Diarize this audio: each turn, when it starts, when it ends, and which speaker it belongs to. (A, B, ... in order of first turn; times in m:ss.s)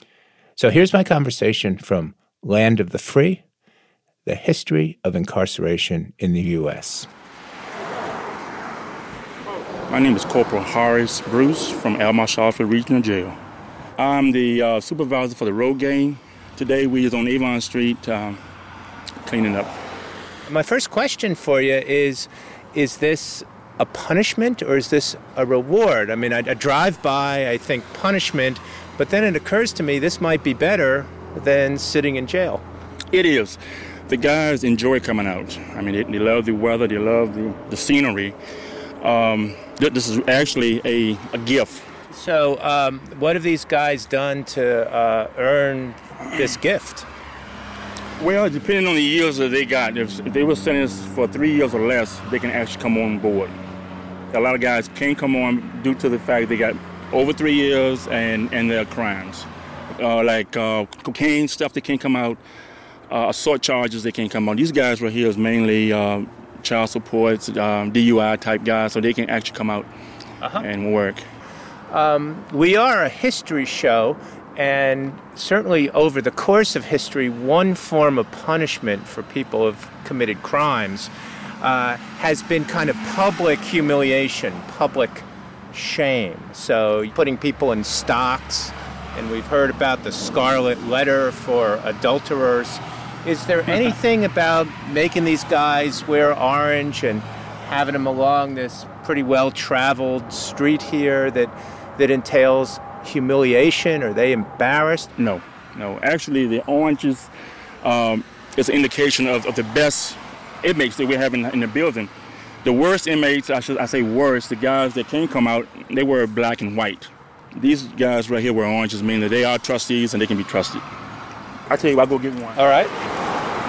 0:00.6-0:03.4 A
0:04.2-0:07.1 A
0:09.9-0:13.4 B
0:14.0-0:18.4 B
0:19.2-0:19.7 B
0:20.5-0:32.6 A
0:33.1-0:38.4 B
0:39.0-0:41.9 B
0:42.1-0:47.1 A
0:48.2-0:53.6 B
0:54.3-1:02.4 B
1:03.1-1:09.9 B
1:10.6-1:11.2 B
1:11.9-1:45.1 A
1:45.2-1:47.3 B
1:47.8-1:52.1 B
1:52.6-2:00.8 B
2:01.7-2:02.6 B
2:02.6-2:02.9 A